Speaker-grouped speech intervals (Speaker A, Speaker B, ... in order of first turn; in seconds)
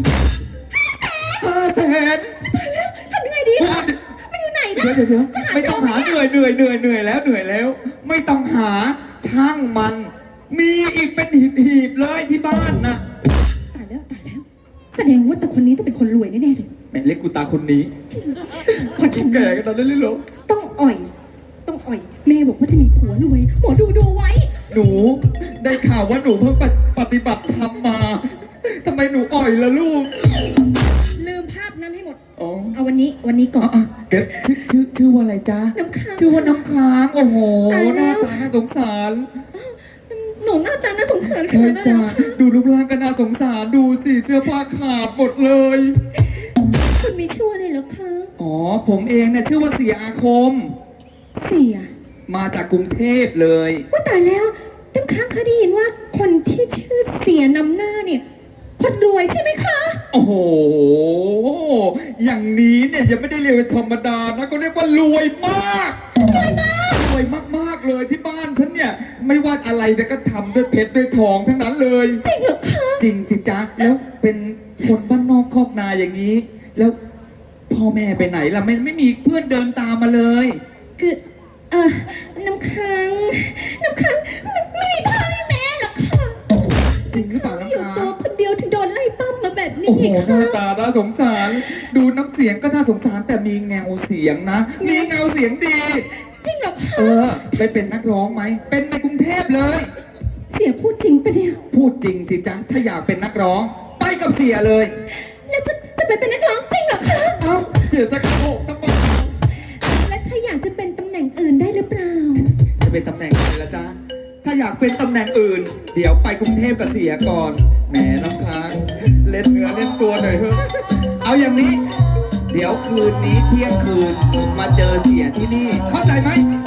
Speaker A: 0.7-1.5, 2.4-6.2, 13.7-16.7, 18.1-19.6, 20.5-21.1, 21.6-24.5, 31.2-32.2, 32.7-34.5, 35.7-36.6, 37.7-38.5, 39.5-42.4, 46.2-48.3, 51.4-51.9, 53.9-58.2, 58.8-60.0, 66.3-67.0, 72.2-73.1, 81.0-86.4, 87.1-90.6, 91.5-91.8, 94.8-95.2, 96.1-97.7, 100.5-101.6, 105.1-107.5, 109.5-112.5
Speaker B: 1.4-2.4, 3.6-4.0, 4.8-13.0, 16.9-17.9, 18.7-20.2, 24.7-30.3, 32.4-32.7, 33.6-39.3, 41.4-46.0, 48.4-50.7, 52.3-53.9, 60.1-66.0, 66.8-72.2, 73.0-77.0, 77.7-80.6, 87.1-88.2, 89.8-96.1, 97.0-99.9, 101.7-105.0, 107.4-109.3, 112.4-121.8, 122.5-126.5